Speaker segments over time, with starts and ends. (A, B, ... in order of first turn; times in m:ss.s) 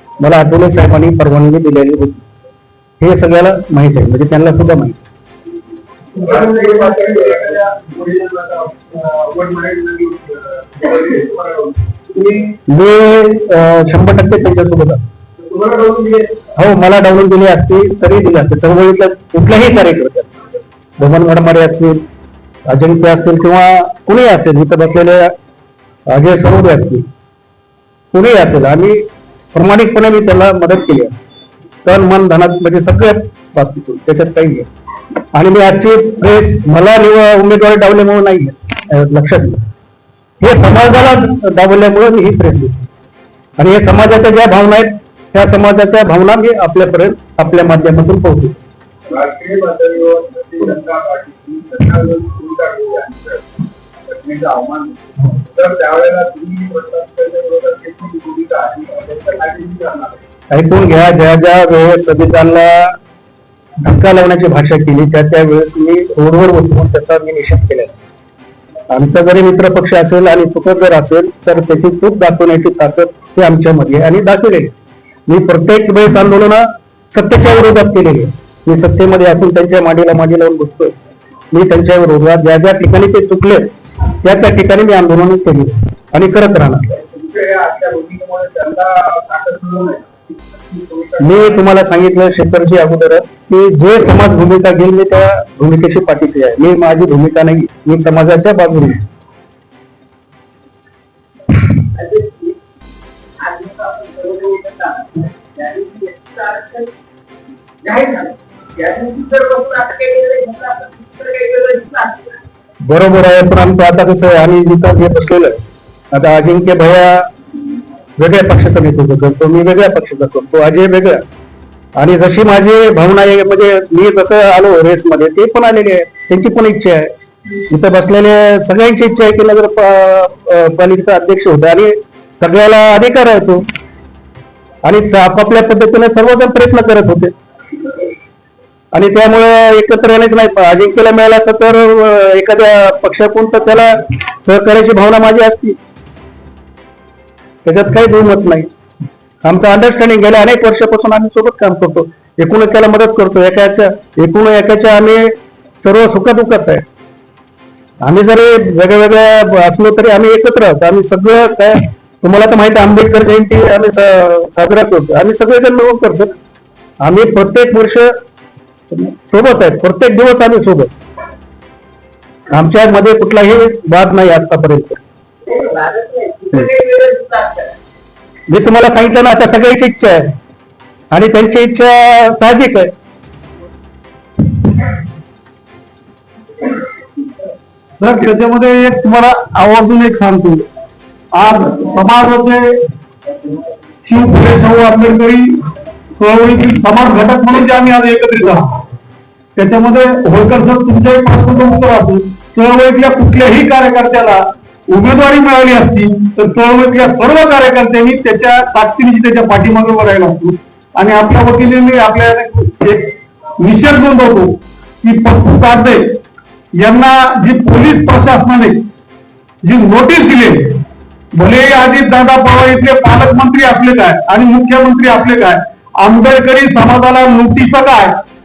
0:00.2-0:02.2 A
0:03.0-0:05.0 A
0:06.1-0:12.4 B
0:12.7-0:15.0 A
0:15.5-0:16.3 B
0:16.6-0:20.3 A
0:21.0-0:22.0 A
0:22.7-0:25.3 A
0:26.1-0:27.0 A
0:28.1-0:31.1 A
0:31.8-0:34.7 A
0:35.3-0:39.6 A
0:40.4-0:42.8 A
0:43.6-0:48.6 A
0:49.1-1:00.2 B
1:00.5-1:03.0 A
1:03.8-1:07.9 A
1:08.9-1:14.7 A
1:15.3-1:20.9 A
1:21.5-1:23.7 A
1:24.2-1:26.9 A
1:27.0-1:31.6 B
1:31.2-1:39.0 A
1:52.8-1:55.6 A
1:56.1-1:57.3 A
1:58.2-2:01.2 A
2:02.0-2:07.1 A
2:07.7-2:13.6 A
2:14.8-2:17.3 A
2:18.9-2:25.8 A
2:27.6-2:28.7 A
2:29.4-2:36.8 A
2:38.0-2:46.3 A
2:47.0-2:48.1 A
2:48.9-2:50.9 A
2:52.5-2:55.0 A
2:58.5-3:00.3 A
3:01.1-3:02.9 A
3:08.0-3:10.7 C
3:11.3-3:12.8 C
3:14.0-3:15.6 C
3:16.2-3:18.8 C
3:19.6-3:36.2 C
3:36.8-3:38.8 C
3:39.6-3:40.8 C
3:41.3-3:48.2 C